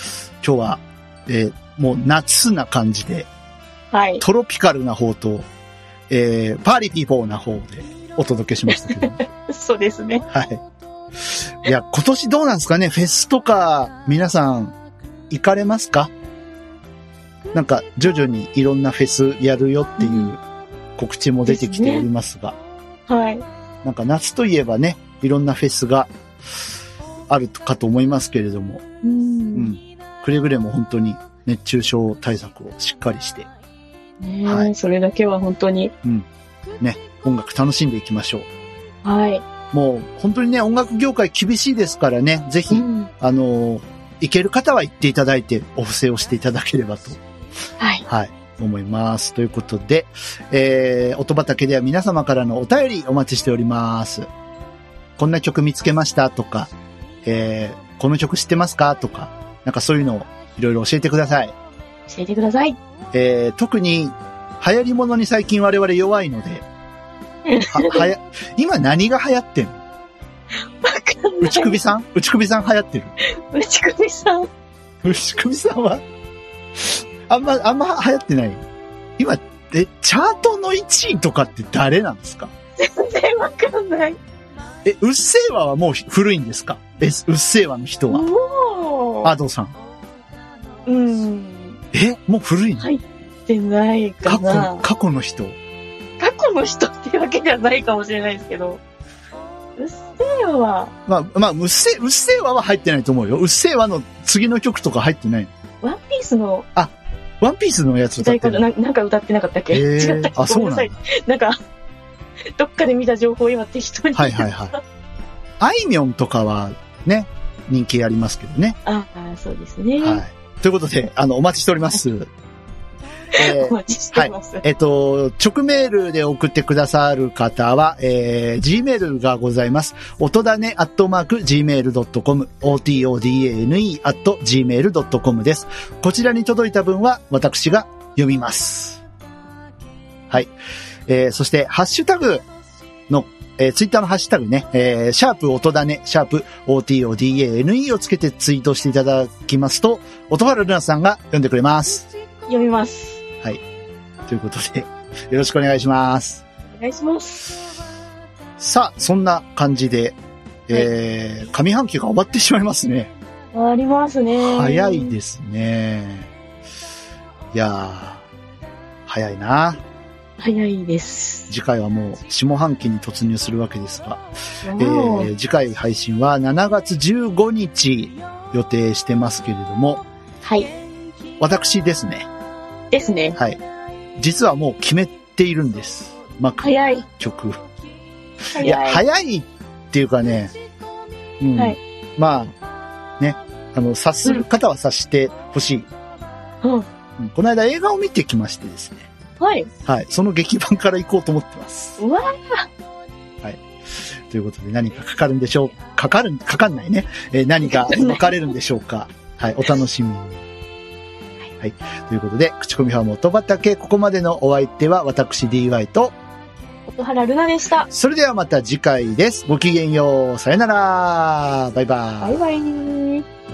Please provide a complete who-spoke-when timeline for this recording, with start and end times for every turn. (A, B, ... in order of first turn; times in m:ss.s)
0:00.4-0:03.3 A
0:03.9-0:04.2 B
0:04.2-0:05.5 A
0:06.1-0:09.2 A
0:08.8-0:10.2 B
0:10.3-0:10.6 A
0:11.2-0:14.8 A
0:15.3-0:16.1 A
0:17.5-0:20.4 A
0:20.0-0:20.3 B
0:21.0-0:22.6 A
0:21.4-0:22.1 B
0:23.1-0:23.4 B
0:23.8-0:26.1 A
0:27.3-0:28.8 A
0:29.0-0:29.7 B
0:29.5-0:33.5 A
0:34.2-0:35.9 B
0:34.4-0:34.7 A
0:36.8-0:38.5 A
0:39.0-0:39.4 B
0:39.7-0:47.2 A
0:42.7-0:43.1 B
0:47.8-0:48.0 B
0:48.1-0:54.3 A
0:55.2-0:56.7 A
0:57.2-1:01.5 A
1:02.1-1:02.8 B
1:03.1-1:06.6 A
1:07.4-1:08.1 B
1:07.7-1:09.8 A
1:10.8-1:11.8 B
1:11.4-1:13.1 A
1:13.3-1:14.5 B
1:15.0-1:16.0 A
1:16.8-1:18.6 A
1:19.2-1:22.5 A
1:22.8-1:24.2 B
1:24.8-1:28.3 A
1:28.1-1:29.3 B
1:29.2-1:29.7 A
1:30.8-1:31.8 B
1:31.9-1:32.8 A
1:32.8-1:34.9 B
1:34.2-1:35.6 A
1:36.2-1:38.8 B
1:39.8-1:40.9 B
1:41.0-1:45.5 A
1:45.8-1:46.6 B
1:46.7-1:48.6 A
1:48.2-1:51.6 B
1:49.7-1:51.0 A
1:52.6-1:54.8 B
1:54.1-1:54.7 A
1:55.6-1:58.8 A
1:58.8-2:00.2 B
2:00.0-2:02.3 A
2:03.3-2:04.6 B
2:03.4-2:19.0 A
2:21.1-2:22.4 A
2:23.1-2:32.1 A
2:32.5-2:33.2 B
2:34.2-2:36.4 A
2:36.7-2:37.5 B
2:38.6-2:40.2 A
2:40.7-2:43.1 A
2:43.5-2:45.2 B
2:44.3-2:46.3 A
2:47.5-2:48.2 A
2:49.0-2:49.8 A
2:50.4-2:51.5 B
2:51.5-2:54.2 A
2:54.6-2:55.3 B
2:54.8-3:00.0 A
3:00.4-3:00.7 B
3:01.4-3:02.3 A
3:02.9-3:03.4 B
3:03.4-3:03.6 A
3:04.2-3:06.7 A
3:06.6-3:07.0 B
3:07.2-3:07.6 A
3:08.5-3:09.0 B
3:08.6-3:10.5 A
3:11.4-3:12.6 A
3:13.2-3:15.9 A
3:17.2-3:19.1 A
3:19.4-3:19.7 B
3:19.8-3:22.0 A
3:22.0-3:22.7 B
3:23.4-3:30.4 A
3:27.6-3:28.4 B
3:31.6-3:36.1 A
3:36.9-3:37.9 B
3:37.9-3:42.4 A
3:42.2-3:43.2 B